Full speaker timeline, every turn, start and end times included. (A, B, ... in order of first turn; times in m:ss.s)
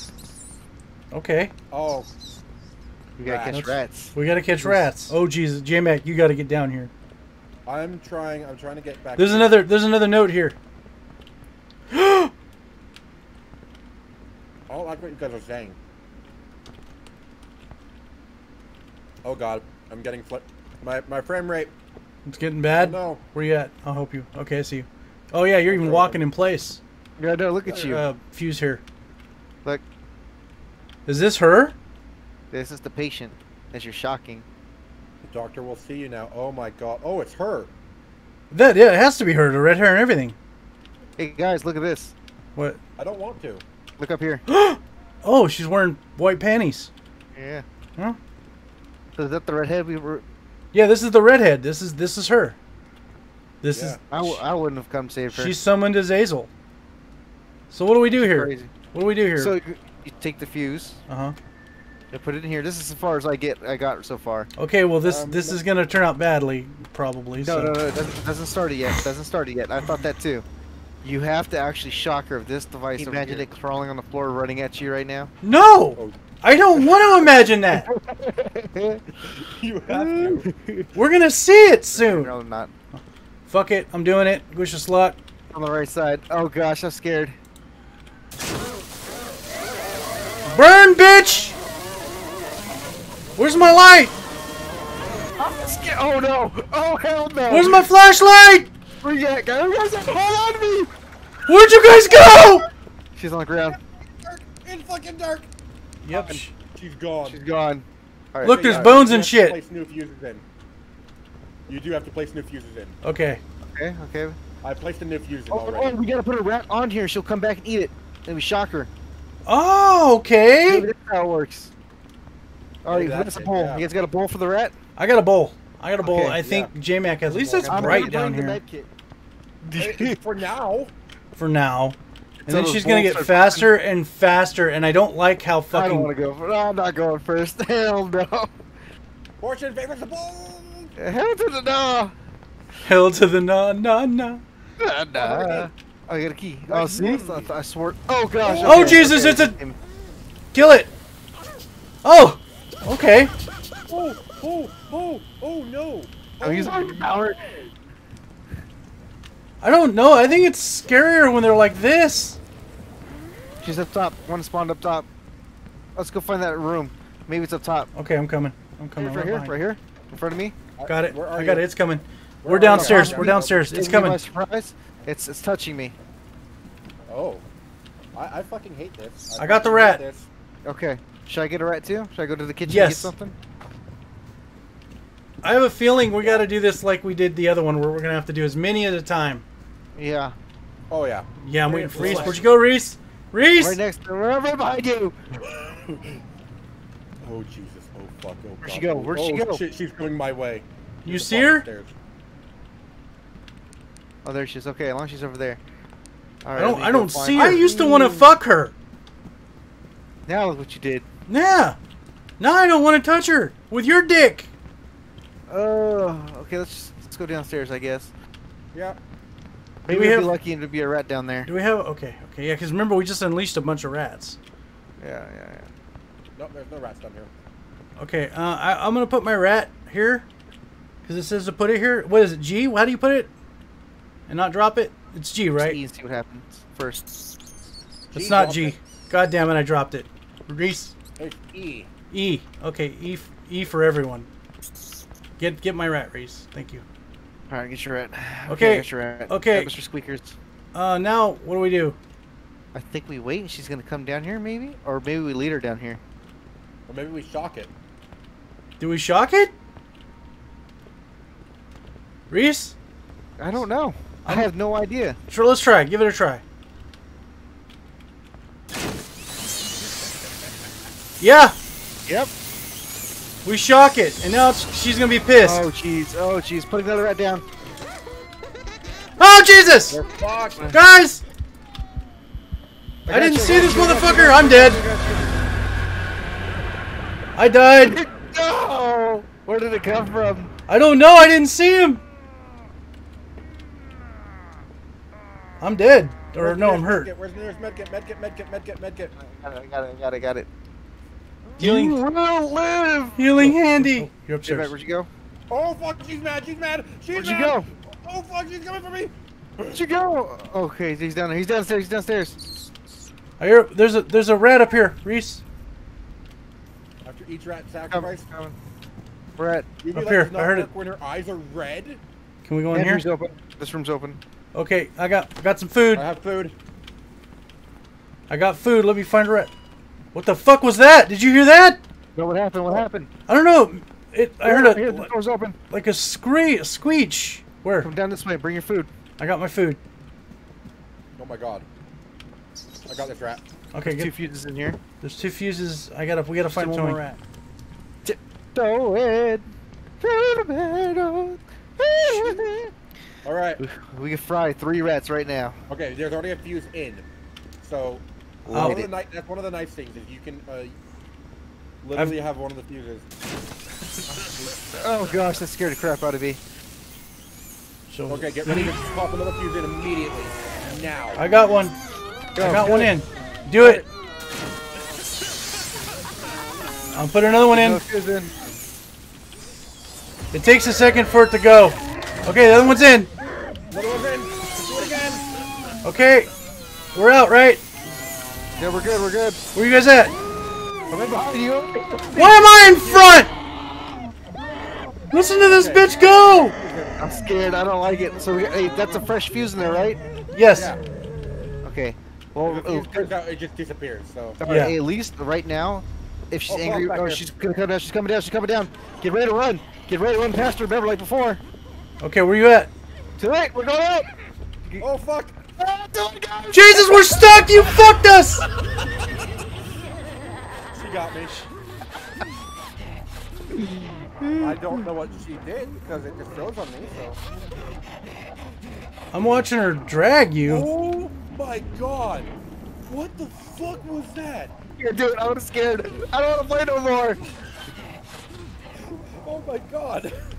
0:01.1-0:01.5 A
0:01.7-0:02.1 B
0:03.2-0:05.0 C
0:03.2-0:03.6 B
0:03.5-0:06.9 A
0:07.7-0:09.6 B
0:09.2-0:10.6 A
0:11.9-0:12.3 A
0:14.7-0:15.8 B
0:19.2-0:21.7 B
0:22.3-0:26.8 A
0:22.8-0:23.2 B
0:25.7-0:26.2 B
0:27.2-0:28.0 C
0:27.7-0:28.8 A
0:31.1-0:31.8 A
0:32.5-0:34.5 C
0:35.2-0:37.7 B
0:38.5-0:40.4 A
0:41.2-0:42.2 C
0:43.0-0:43.6 B
0:44.0-0:44.4 C
0:44.5-0:46.9 A
0:47.4-0:47.6 C
0:49.2-0:50.2 C
0:50.7-0:52.6 A
0:53.6-0:54.4 A
0:53.7-0:54.0 B
0:54.1-0:55.6 C
0:55.3-0:56.5 A
0:57.7-0:59.6 A
0:58.2-0:58.7 C
0:59.4-1:01.0 C
1:01.1-1:01.4 A
1:02.1-1:04.5 C
1:04.6-1:07.8 A
1:05.0-1:05.6 B
1:07.4-1:10.4 C
1:11.0-1:15.3 C
1:13.0-1:13.5 B
1:15.4-1:17.9 A
1:17.7-1:19.1 C
1:19.3-1:20.5 B
1:19.9-1:20.9 C
1:20.9-1:22.3 A
1:21.9-1:22.7 C
1:22.9-1:25.2 A
1:25.5-1:27.4 C
1:30.5-1:31.6 A
1:33.4-1:34.2 A
1:35.4-1:37.9 C
1:37.5-1:38.7 A
1:39.0-1:40.9 C
1:41.5-1:42.6 A
1:42.1-1:42.6 B
1:43.2-1:43.8 C
1:44.0-1:45.5 B
1:46.0-1:46.5 A
1:46.1-1:46.4 C
1:46.6-1:47.4 B
1:47.2-1:49.0 C
1:48.4-1:49.6 A
1:48.4-1:50.4 B
1:51.7-1:53.0 B
1:53.0-1:53.4 A
1:53.6-1:54.4 C
1:54.6-1:56.0 B
1:55.5-1:58.9 C
1:59.5-2:00.9 A
2:00.7-2:01.7 C
2:02.8-2:04.7 C
2:02.9-2:03.9 B
2:05.0-2:08.6 A
2:06.0-2:06.4 C
2:06.4-2:06.7 B
2:07.3-2:08.1 B
2:07.6-2:08.9 C
2:09.6-2:10.2 C
2:09.8-2:10.9 B
2:11.4-2:16.1 A
2:12.4-2:13.7 C
2:15.7-2:18.5 C
2:19.4-2:20.9 B
2:21.0-2:22.1 C
2:22.8-2:24.4 A
2:24.8-2:29.8 C
2:25.2-2:25.7 B
2:26.7-2:27.5 B
2:28.4-2:29.3 B
2:28.6-2:29.6 A
2:30.5-2:30.9 A
2:32.0-2:33.3 A
2:33.9-2:37.1 B
2:36.4-2:37.5 C
2:39.6-2:42.4 A
2:43.6-2:45.1 C
2:46.0-2:47.9 C
2:47.9-2:49.5 A
2:49.0-2:50.6 C
2:50.8-2:51.7 B
2:50.9-2:54.2 A
2:52.4-2:53.7 B
2:52.6-2:55.9 C
2:57.1-2:57.4 B
2:58.1-3:00.3 B
2:59.4-3:00.0 A
3:00.6-3:03.4 C
3:02.7-3:03.1 A
3:05.4-3:09.4 A
3:09.9-3:10.3 C
3:10.9-3:12.4 B
3:11.4-3:13.8 A
3:11.9-3:12.4 C
3:13.6-3:15.2 C
3:15.5-3:16.2 B
3:17.2-3:21.9 B
3:18.6-3:19.6 C
3:21.0-3:21.6 A
3:24.2-3:25.6 C
3:26.4-3:28.3 C
3:26.6-3:28.7 A
3:30.3-3:31.0 C
3:31.3-3:31.8 A
3:32.4-3:34.5 A
3:35.5-3:38.1 C
3:39.8-3:41.5 C
3:39.9-3:40.3 A
3:41.5-3:44.4 A
3:45.0-3:45.7 C
3:46.4-3:47.3 B
3:48.0-3:50.2 A
3:51.0-3:53.3 A
3:54.3-3:55.8 A
3:55.6-3:57.2 C
3:58.1-3:58.8 B
3:58.1-4:00.9 A
4:01.2-4:01.9 B
4:02.1-4:04.3 A
4:05.4-4:06.8 A
4:07.5-4:10.4 C
4:08.5-4:09.7 A
4:10.7-4:12.0 A
4:12.7-4:16.0 C
4:16.9-4:17.7 B
4:18.8-4:19.5 A
4:22.3-4:22.8 A
4:23.4-4:25.2 C
4:25.3-4:26.4 A
4:31.2-4:31.6 A
4:33.4-4:35.6 A
4:35.4-4:37.4 C
4:39.2-4:40.0 A
4:39.9-4:40.8 B
4:40.7-4:41.2 A
4:43.1-4:45.3 C
4:43.1-4:44.8 A
4:47.4-4:48.0 A
4:47.8-4:50.5 C
4:50.7-4:52.0 A
4:55.6-4:57.1 A
4:56.4-4:59.1 B
4:59.2-5:00.5 C
5:01.5-5:03.2 C
5:01.6-5:02.0 A
5:03.2-5:04.7 A
5:03.8-5:05.1 C
5:05.5-5:09.8 B
5:07.1-5:07.7 C
5:09.7-5:12.4 C
5:13.4-5:15.4 A
5:17.0-5:18.3 B
5:17.9-5:18.6 C
5:19.4-5:19.7 C
5:19.8-5:22.0 B
5:19.9-5:20.7 A
5:22.4-5:23.0 A
5:22.7-5:24.2 C
5:24.5-5:26.1 A
5:25.9-5:26.6 B
5:28.3-5:29.5 A
5:30.1-5:31.8 A
5:32.2-5:33.1 C
5:33.3-5:35.1 A
5:34.4-5:35.6 C
5:35.7-5:37.9 A
5:37.8-5:38.9 C
5:39.2-5:39.8 A
5:41.2-5:41.6 B
5:42.9-5:43.4 B
5:43.7-5:44.1 A
5:43.8-5:44.8 C
5:45.0-5:47.1 A
5:46.5-5:47.1 C
5:48.0-5:52.7 C
5:53.2-5:53.6 B
5:53.6-5:55.6 C
5:55.7-5:57.1 B
5:57.6-6:00.8 B
5:58.5-5:58.9 C
5:58.5-5:58.8 A
6:01.8-6:03.1 B
6:04.8-6:06.4 C
6:07.9-6:08.8 A
6:08.1-6:11.3 B
6:11.2-6:11.8 A
6:12.4-6:12.9 C
6:12.4-6:13.8 A
6:16.9-6:17.8 A
6:17.5-6:18.3 C
6:20.3-6:23.1 A
6:23.7-6:25.3 B
6:25.8-6:26.3 A
6:26.9-6:27.6 A
6:28.6-6:29.4 C
6:29.5-6:30.1 A
6:30.9-6:32.4 C
6:32.1-6:33.3 A
6:32.6-6:33.3 B
6:35.1-6:36.6 A
6:35.5-6:37.0 B
6:37.0-6:40.0 C
6:40.3-6:40.7 A
6:40.5-6:40.8 B
6:41.6-6:43.1 C
6:42.4-6:44.4 B
6:44.4-6:51.4 C
6:44.4-6:44.8 A
6:46.5-6:47.2 B
6:52.0-6:52.7 A
6:53.2-6:54.1 C
6:54.8-6:55.4 B
6:55.6-6:57.6 C
6:56.5-6:58.4 A
7:00.7-7:01.5 B
7:03.6-7:04.8 C
7:04.4-7:07.2 B
7:09.1-7:10.7 A
7:10.5-7:14.5 B
7:14.8-7:17.2 C
7:19.2-7:20.1 B